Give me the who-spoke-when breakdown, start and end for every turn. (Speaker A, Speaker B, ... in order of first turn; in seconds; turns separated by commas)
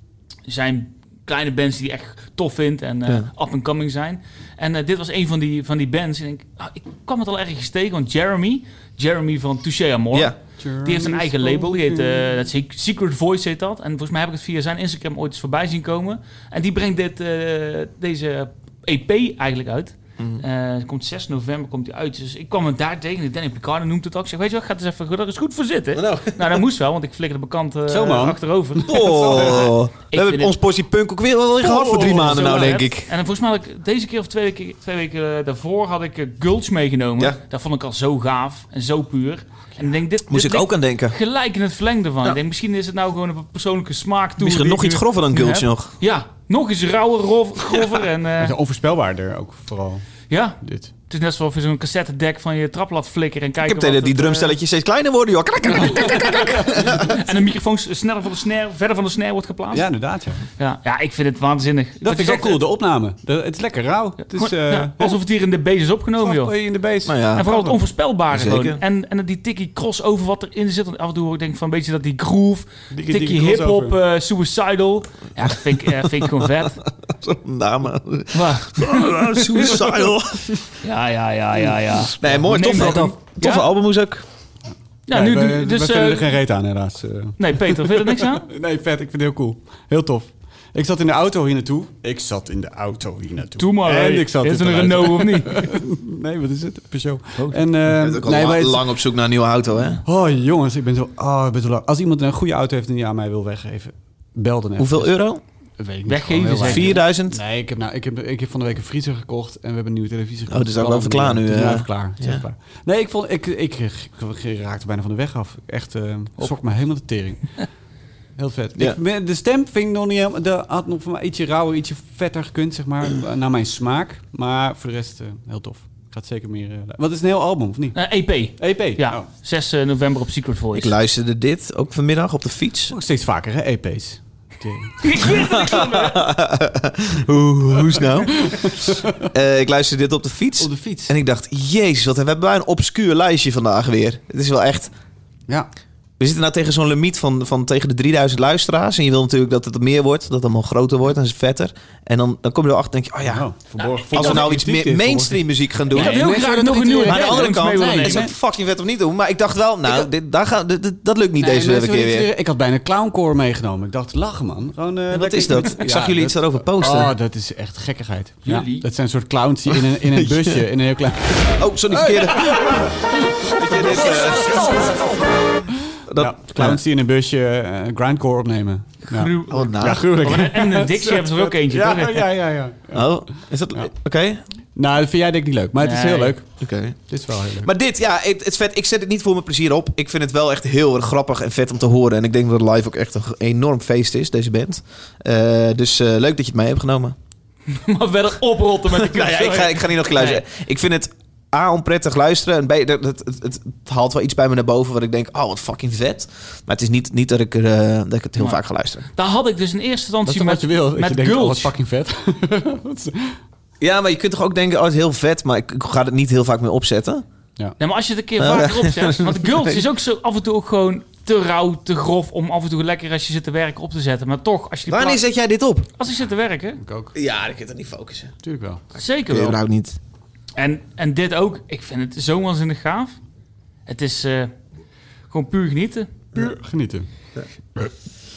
Speaker A: 0.5-30.5, Speaker B: 10.6-12.4, Speaker C: 25.9-26.6, Speaker B: 27.9-29.7, Speaker C: 28.9-33.1, Speaker B: 31.6-32.7, Speaker A: 31.8-48.5, Speaker C: 40.3-41.1, Speaker C: 44.4-45.9, Speaker B: 48.4-50.0, Speaker A: 50.3-54.5, Speaker B: 50.6-50.9, Speaker C: 53.6-57.2, Speaker A: 56.2-59.9, Speaker B: 59.7-60.4, Speaker A: 60.6-62.6, Speaker B: 62.0-65.1, Speaker A: 64.3-66.5, Speaker B: 66.2-67.8, Speaker C: 67.0-67.5, Speaker A: 67.3-76.8, Speaker C: 68.3-68.8, Speaker B: 72.9-73.9, Speaker C: 77.1-80.6, Speaker A: 78.3-80.0, Speaker A: 80.8-83.7, Speaker C: 82.1-84.2, Speaker A: 85.1-86.3, Speaker B: 85.1-98.9, Speaker A: 87.4-88.4, Speaker A: 93.6-95.7, Speaker A: 97.4-97.6, Speaker C: 97.9-100.0, Speaker B: 100.0-105.1, Speaker C: 104.8-105.4, Speaker B: 105.8-117.5, Speaker A: 106.1-107.0, Speaker C: 106.7-107.4, Speaker C: 110.5-112.4, Speaker B: 118.4-128.0, Speaker A: 128.0-130.9, Speaker B: 128.6-129.2, Speaker C: 130.7-132.9, Speaker B: 132.9-135.1, Speaker A: 135.0-136.3, Speaker C: 135.3-144.9, Speaker B: 138.4-139.3, Speaker B: 140.6-141.1, Speaker C: 146.2-153.5, Speaker B: 153.2-158.3, Speaker A: 153.8-154.5, Speaker C: 154.1-156.4, Speaker A: 155.9-158.3, Speaker C: 157.1-162.3, Speaker B: 161.4-175.1, Speaker C: 165.1-167.1, Speaker A: 168.4-168.8, Speaker C: 170.1-170.6, Speaker C: 171.5-172.9, Speaker C: 173.5-174.9, Speaker C: 176.1-176.8, Speaker B: 176.2-183.1, Speaker A: 179.1-182.3, Speaker C: 179.5-180.1, Speaker C: 182.9-184.4, Speaker B: 184.8-186.4, Speaker A: 185.8-186.3, Speaker C: 186.6-187.0, Speaker B: 187.1-187.7, Speaker C: 187.6-197.2, Speaker A: 197.7-200.4, Speaker C: 198.9-209.0, Speaker A: 209.2-211.7, Speaker B: 210.2-213.4, Speaker C: 213.8-217.2, Speaker A: 217.8-225.2, Speaker C: 218.4-219.8, Speaker C: 224.9-225.9, Speaker A: 226.0-226.8, Speaker B: 226.8-227.1, Speaker C: 227.1-228.3, Speaker B: 228.4-228.8, Speaker A: 228.9-229.6, Speaker C: 229.3-230.0, Speaker A: 230.6-233.2, Speaker A: 233.9-234.5, Speaker A: 235.3-236.1, Speaker B: 236.3-237.1